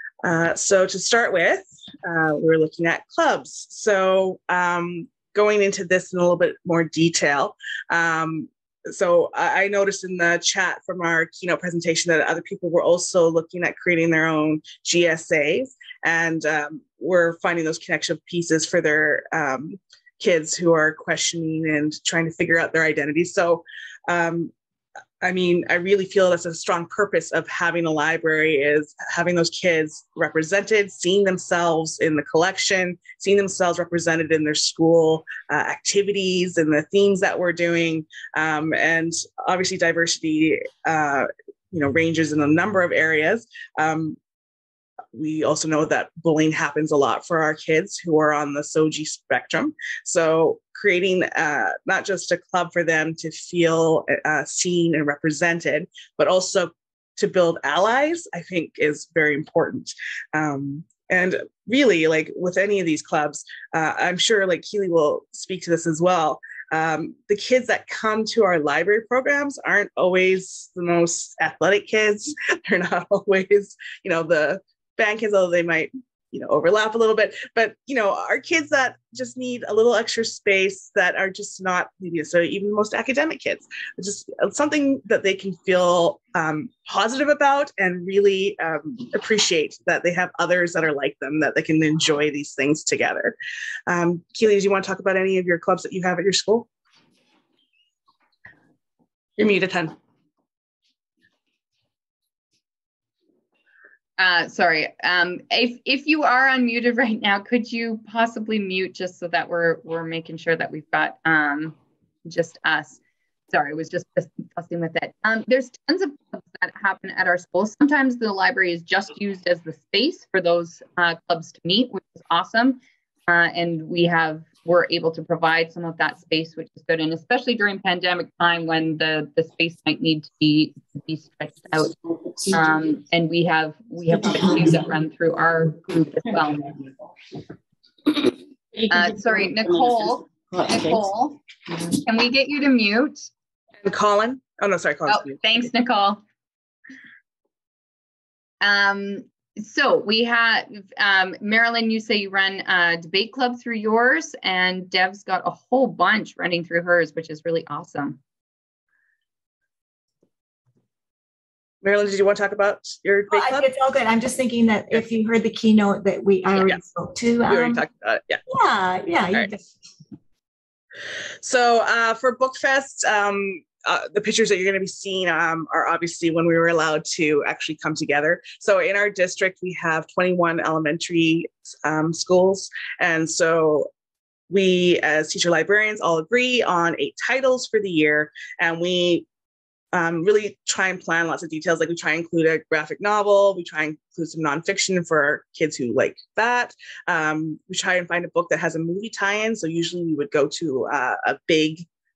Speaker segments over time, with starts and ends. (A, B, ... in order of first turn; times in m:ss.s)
0:00.2-0:24.5 A
0:25.2-0:44.2 A
0:45.1-1:33.3 A
1:33.9-1:36.7 A
1:39.4-1:40.0 A
1:44.2-1:53.0 B
1:53.5-2:16.8 B
2:18.9-2:23.3 B
2:23.8-2:25.5 A
2:25.1-2:26.2 B
2:28.6-2:38.2 B
2:41.8-2:43.7 A
2:43.3-2:47.8 C
2:47.5-2:48.4 A
2:48.5-2:49.6 C
2:51.4-3:03.9 A
3:04.5-3:09.2 A
3:09.9-3:21.8 A